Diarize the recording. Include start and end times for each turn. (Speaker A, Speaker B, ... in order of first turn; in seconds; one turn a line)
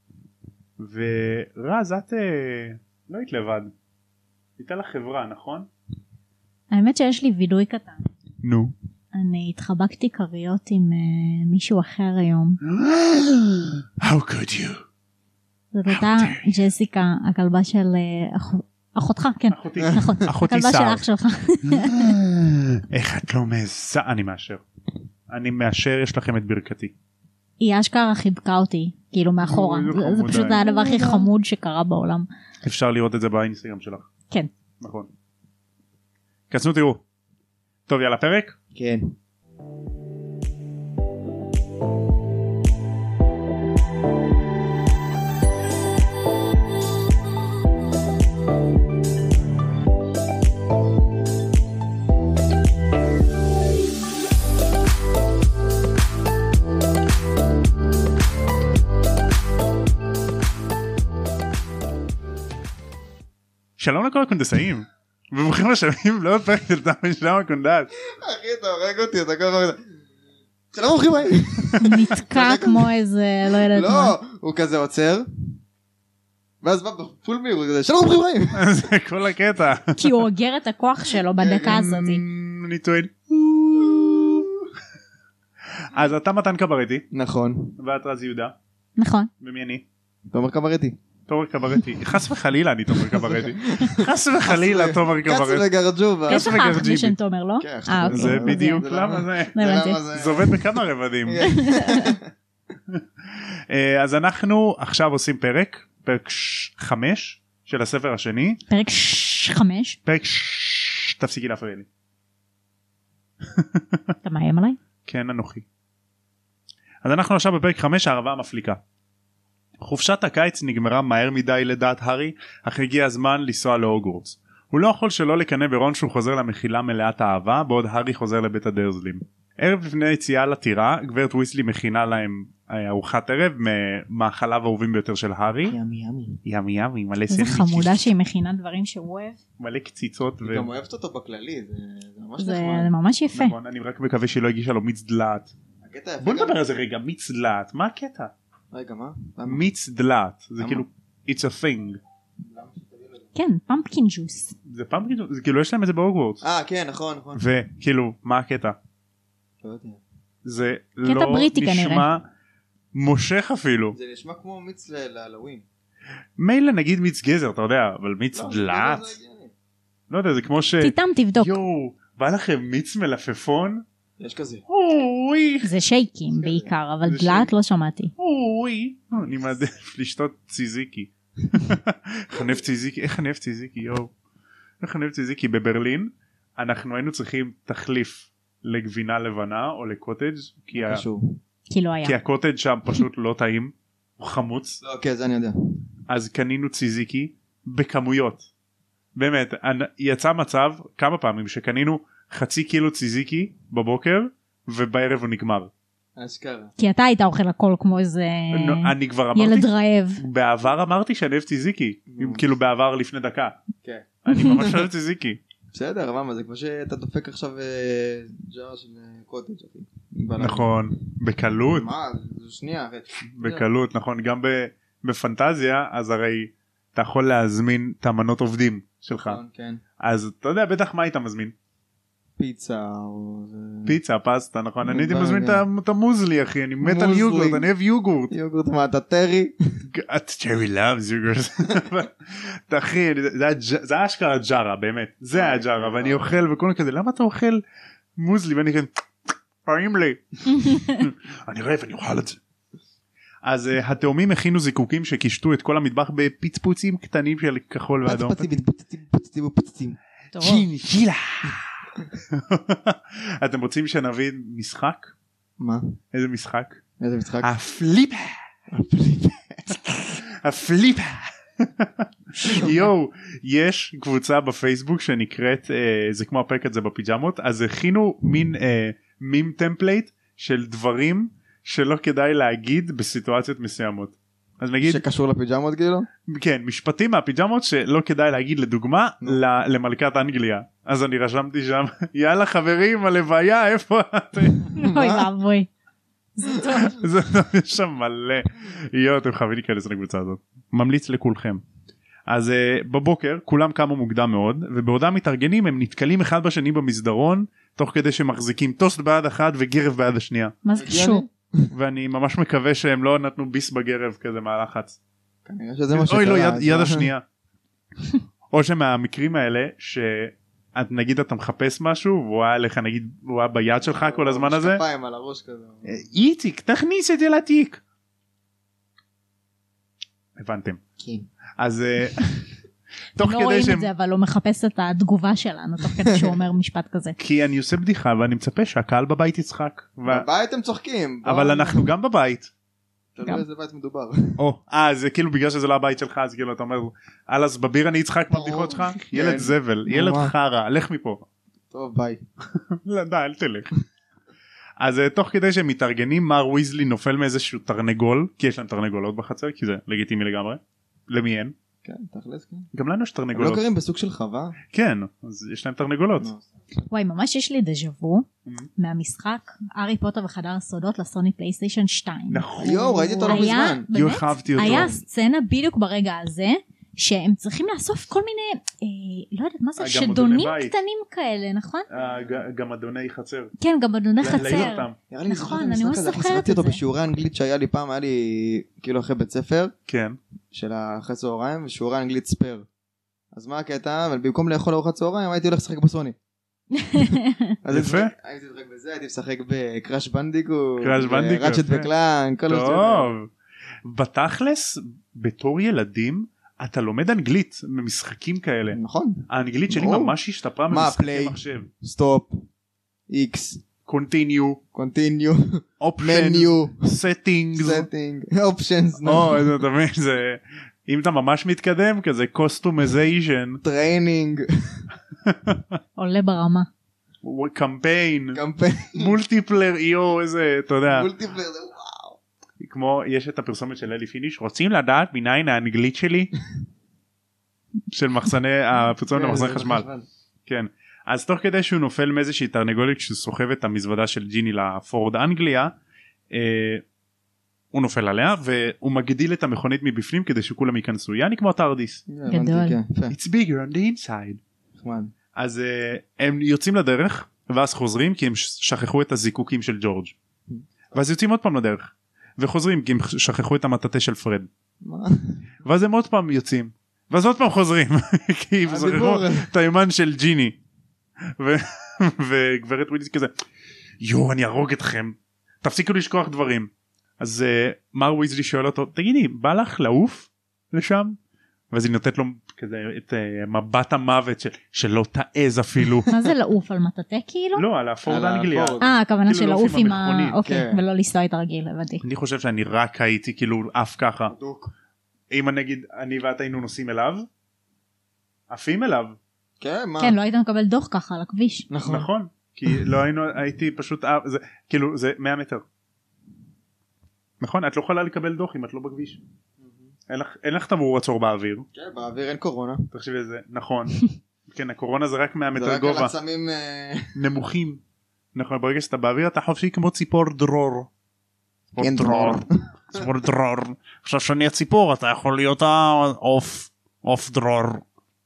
Speaker A: 0.8-3.7
Speaker A: 4.6-5.7
Speaker B: 6.7-8.0
Speaker A: 8.4-8.7
Speaker B: 9.1-12.6
Speaker A: 12.6-14.8
Speaker B: 15.7-22.1
Speaker A: 15.9-16.6
Speaker A: 19.5-21.0
Speaker C: 19.8-20.2
Speaker A: 21.6-24.6
Speaker A: 25.3-26.9
Speaker B: 27.6-32.3
Speaker A: 29.4-31.1
Speaker A: 32.6-34.1
Speaker A: 34.8-35.1
Speaker A: 36.5-37.0
Speaker A: 37.9-38.6
Speaker C: 38.7-39.1
Speaker A: 63.8-67.9
Speaker C: 68.1-69.8
Speaker C: 70.7-72.9
Speaker B: 71.8-74.2
Speaker C: 73.5-75.3
Speaker C: 76.6-78.9
Speaker A: 78.5-80.0
Speaker B: 80.0-82.2
Speaker C: 81.1-81.9
Speaker A: 81.7-84.5
Speaker C: 83.9-84.6
Speaker A: 85.8-87.1
Speaker C: 87.1-87.8
Speaker A: 87.8-88.6
Speaker B: 89.0-89.3
Speaker A: 89.4-89.8
Speaker C: 90.3-91.0
Speaker A: 91.3-95.7
Speaker C: 93.0-96.5
Speaker A: 96.3-97.2
Speaker B: 96.3-98.9
Speaker C: 97.6-100.7
Speaker A: 98.0-99.6
Speaker B: 99.5-100.0
Speaker A: 100.1-101.5
Speaker C: 101.2-102.3
Speaker B: 101.5-102.2
Speaker A: 102.9-108.6
Speaker B: 108.7-110.0
Speaker A: 110.1-111.9
Speaker A: 113.5-114.2
Speaker B: 114.2-114.8
Speaker A: 115.1-115.7
Speaker A: 117.0-118.8
Speaker A: 119.8-135.8
Speaker C: 135.7-136.4
Speaker A: 136.4-138.1
Speaker B: 137.3-139.4
Speaker A: 139.6-140.7
Speaker C: 140.4-142.9
Speaker B: 142.4-143.6
Speaker A: 143.3-145.5
Speaker C: 145.8-146.6
Speaker A: 146.2-148.3
Speaker C: 148.7-149.6
Speaker A: 149.5-152.0
Speaker C: 150.6-150.9
Speaker C: 152.4-153.3
Speaker B: 153.3-154.6
Speaker A: 154.7-156.4
Speaker C: 156.4-157.5
Speaker A: 157.3-158.8
Speaker C: 159.6-160.0
Speaker A: 160.4-162.3
Speaker B: 161.1-162.1
Speaker A: 162.9-164.0
Speaker C: 163.9-165.6
Speaker A: 166.4-169.2
Speaker C: 168.3-169.5
Speaker A: 170.1-173.8
Speaker B: 170.8-171.5
Speaker C: 174.2-174.6
Speaker A: 174.7-175.7
Speaker B: 175.6-178.1
Speaker C: 176.3-176.7
Speaker A: 177.0-177.5
Speaker A: 178.2-184.1
Speaker A: 184.8-191.0
Speaker C: 190.8-191.4
Speaker B: 191.7-192.2
Speaker A: 192.0-194.8
Speaker C: 194.8-195.8
Speaker A: 196.1-198.5
Speaker A: 199.2-205.7
Speaker C: 206.2-206.7
Speaker B: 206.8-210.2
Speaker A: 208.5-213.6
Speaker C: 212.1-212.5
Speaker C: 213.8-214.9
Speaker A: 214.2-215.4
Speaker C: 215.7-220.7
Speaker A: 220.4-221.9
Speaker C: 221.7-223.7
Speaker A: 223.3-229.4
Speaker C: 229.2-229.8
Speaker A: 230.0-231.5
Speaker C: 232.4-233.9
Speaker A: 233.8-238.3
Speaker C: 234.9-235.7
Speaker C: 236.8-237.7
Speaker C: 238.3-239.6
Speaker A: 239.9-247.6
Speaker C: 245.3-246.4
Speaker A: 248.2-252.4
Speaker B: 250.5-251.0
Speaker A: 253.4-258.6
Speaker C: 258.1-260.0
Speaker B: 260.3-260.6
Speaker A: 260.4-265.1
Speaker C: 265.6-266.0
Speaker A: 266.1-266.8
Speaker C: 267.0-267.5
Speaker A: 267.4-268.4
Speaker C: 268.7-269.8
Speaker A: 269.7-285.0
Speaker C: 272.4-272.7
Speaker C: 284.8-286.1
Speaker A: 286.3-294.7
Speaker B: 294.8-295.7
Speaker C: 294.8-295.3
Speaker B: 296.4-297.0
Speaker C: 296.4-296.9
Speaker A: 296.9-301.6
Speaker A: 302.3-310.6
Speaker B: 310.6-311.2
Speaker C: 310.8-311.7
Speaker A: 311.7-315.0
Speaker C: 315.4-317.1
Speaker A: 315.9-317.2
Speaker A: 318.5-324.8
Speaker C: 323.8-326.1
Speaker A: 325.9-327.8
Speaker A: 330.4-330.8
Speaker C: 331.0-331.3
Speaker A: 331.6-332.4
Speaker A: 333.2-333.9
Speaker B: 333.2-337.2
Speaker C: 336.0-336.4
Speaker A: 337.2-340.3
Speaker C: 340.1-341.9
Speaker A: 341.2-342.5
Speaker C: 343.1-344.4
Speaker A: 344.4-351.3
Speaker C: 348.3-350.3
Speaker C: 351.7-352.2
Speaker A: 352.5-353.7
Speaker A: 354.8-361.6
Speaker C: 361.8-362.7
Speaker A: 362.7-363.6
Speaker C: 363.3-364.6
Speaker A: 364.7-366.3
Speaker C: 366.2-366.9
Speaker B: 366.9-368.3
Speaker B: 368.8-381.9
Speaker A: 372.3-374.9
Speaker C: 372.6-373.9
Speaker C: 374.6-375.0
Speaker A: 379.8-380.7
Speaker A: 381.9-383.5
Speaker C: 381.9-382.4
Speaker B: 383.6-386.8
Speaker C: 384.2-389.7
Speaker A: 384.2-385.0
Speaker A: 389.9-390.2
Speaker C: 390.5-392.7
Speaker C: 393.3-396.1
Speaker B: 396.7-397.5
Speaker C: 397.0-403.1
Speaker A: 397.7-398.1
Speaker A: 400.8-401.9
Speaker A: 402.5-403.3
Speaker A: 403.8-411.7
Speaker C: 408.7-410.1
Speaker C: 410.7-412.4
Speaker C: 413.1-413.6
Speaker A: 413.9-414.6
Speaker C: 414.7-416.9
Speaker A: 415.8-417.9
Speaker C: 417.6-419.5
Speaker A: 419.0-423.6
Speaker C: 423.6-424.8
Speaker A: 425.2-425.8
Speaker B: 426.0-426.7
Speaker A: 427.2-428.4
Speaker C: 428.3-429.1
Speaker A: 428.9-431.1
Speaker C: 430.9-432.2
Speaker A: 432.6-436.3
Speaker A: 437.9-439.9
Speaker C: 439.1-440.1
Speaker A: 440.5-445.8
Speaker A: 446.3-446.8
Speaker A: 447.7-452.1
Speaker C: 452.1-453.1
Speaker B: 452.3-452.8
Speaker A: 453.1-454.4
Speaker C: 454.8-455.1
Speaker A: 455.4-460.1
Speaker A: 460.9-464.5
Speaker C: 464.8-465.4
Speaker A: 465.6-470.6
Speaker C: 468.6-469.5
Speaker A: 471.4-473.3
Speaker A: 474.0-481.2
Speaker A: 481.7-486.1
Speaker B: 486.1-487.6
Speaker A: 487.6-490.4
Speaker C: 488.1-488.9
Speaker B: 488.8-492.0
Speaker C: 490.4-490.8
Speaker A: 492.0-494.4
Speaker C: 494.3-494.7
Speaker A: 495.3-497.3
Speaker A: 498.5-499.2
Speaker C: 499.6-500.2
Speaker B: 500.0-501.7
Speaker C: 501.7-502.1
Speaker A: 501.8-505.6
Speaker A: 507.4-509.2
Speaker C: 509.6-509.9
Speaker A: 510.1-511.7
Speaker C: 511.7-512.9
Speaker A: 512.9-516.1
Speaker C: 515.5-517.2
Speaker A: 517.1-517.8
Speaker A: 518.3-520.9
Speaker A: 521.7-527.8
Speaker C: 521.8-523.0